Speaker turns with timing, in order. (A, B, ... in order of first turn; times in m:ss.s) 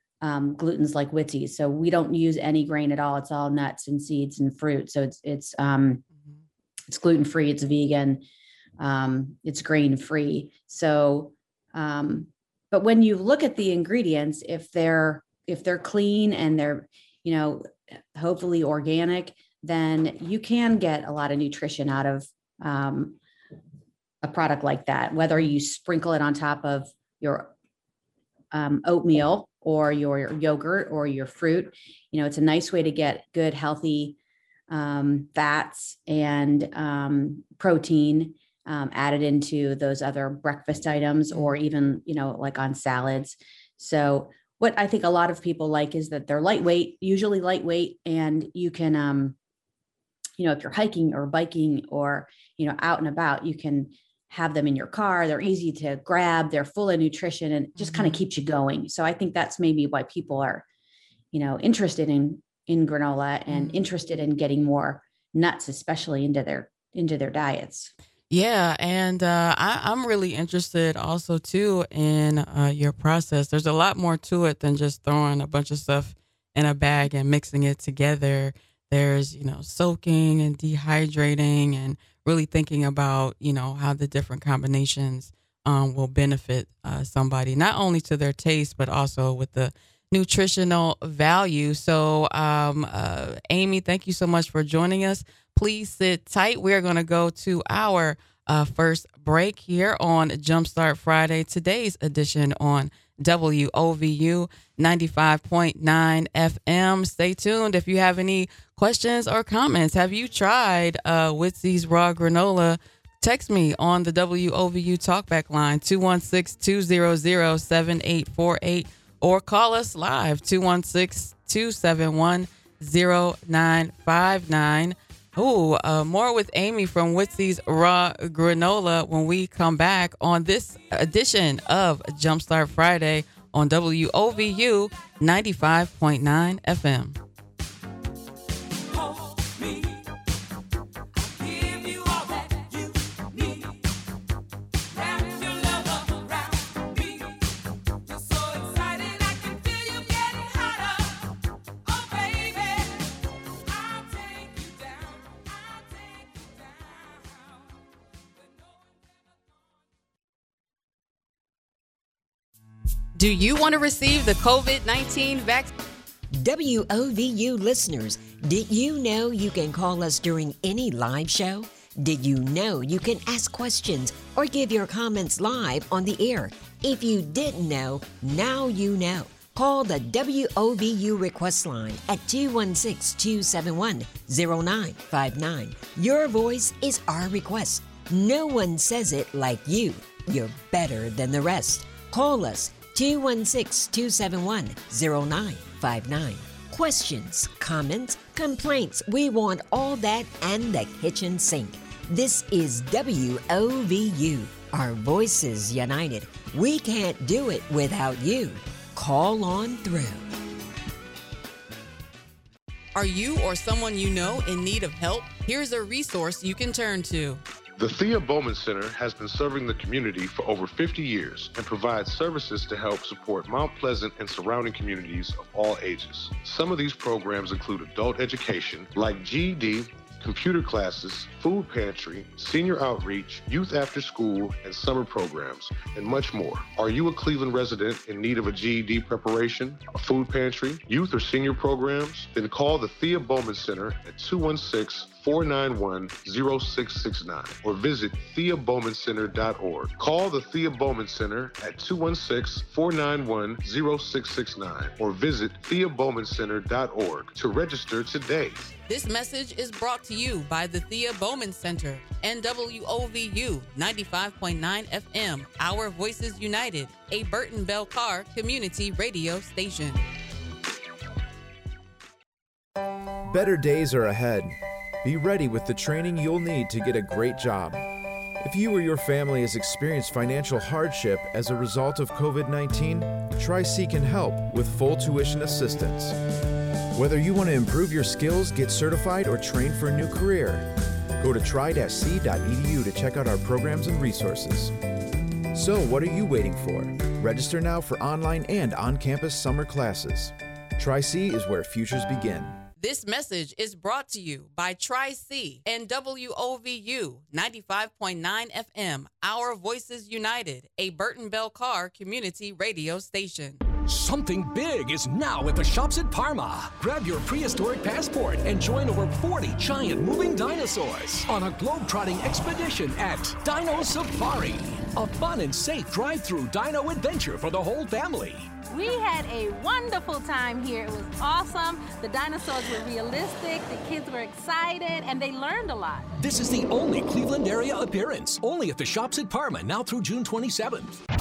0:00.2-0:06.0 A
0:06.9-0:08.2 A
0:08.8-0:23.2 A
0:24.2-0:27.5 A
0:28.5-0:34.2 A
0:34.7-0:49.4 A
0:50.4-1:00.6 A
0:57.8-0:58.2 B
1:01.3-1:07.9 A
1:03.5-1:03.8 B
1:08.3-2:17.2 B
2:43.1-2:45.7 B
2:46.3-3:30.3 C
3:32.9-3:37.4 B
3:37.8-4:18.7 D
4:18.9-4:30.0 B
4:33.3-4:37.8 E
4:38.4-4:46.2 E
4:46.9-4:54.7 E
4:55.5-5:02.6 E
5:02.8-5:13.6 B
5:13.9-5:28.5 F
5:28.7-5:36.1 G
5:36.2-5:41.0 F